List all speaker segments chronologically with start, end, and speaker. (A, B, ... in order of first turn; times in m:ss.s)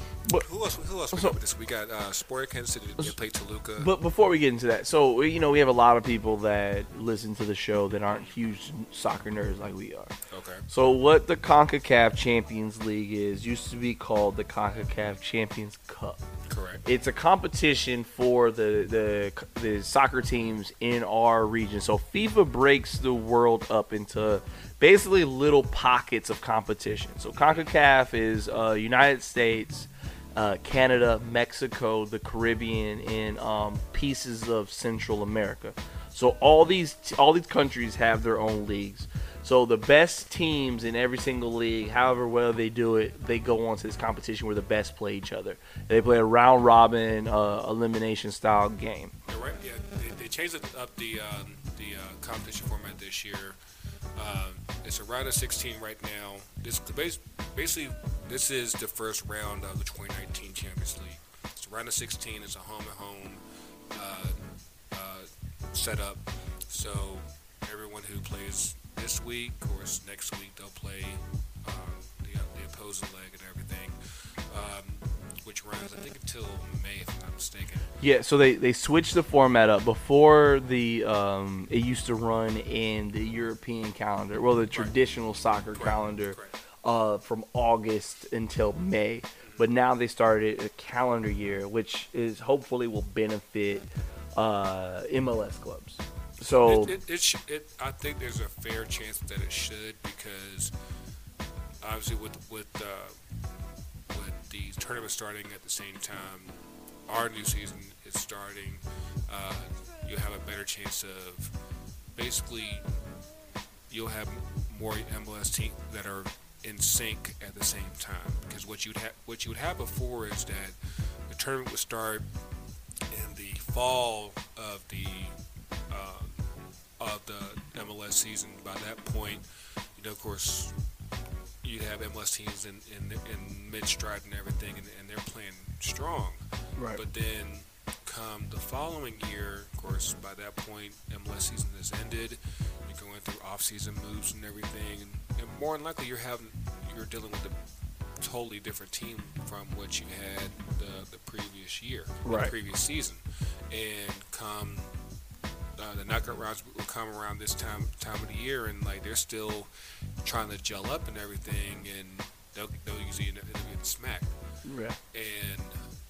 0:00.4-0:03.9 A
0:03.8-0:10.1 B
0:08.1-0:08.3 A
0:10.3-0:10.6 A
0:10.7-0:16.2 B
0:16.5-0:16.8 A
0:16.8-0:49.1 B
0:27.4-0:27.7 A
0:49.3-0:53.6 A
0:54.2-1:03.4 A
1:03.9-1:04.4 A
1:04.9-1:14.0 A
1:14.5-1:17.9 A
1:18.0-1:37.0 B
1:25.7-1:26.5 A
1:29.4-1:29.7 A
1:36.5-1:40.7 A
1:41.8-1:43.2 A
1:44.1-1:46.6 A
1:47.1-1:51.5 A
1:52.2-1:52.8 A
1:53.9-2:00.8 A
2:01.3-2:02.2 A
2:03.1-2:05.3 A
2:05.9-2:06.4 A
2:07.0-2:09.4 A
2:10.0-2:10.7 A
2:11.6-2:16.4 A
2:16.8-2:17.0 B
2:17.0-2:27.6 A
2:28.2-2:34.9 A
2:32.2-2:32.5 B
2:35.8-2:39.7 A
2:40.2-2:44.3 A
2:44.6-2:45.0 B
2:45.1-2:45.8 A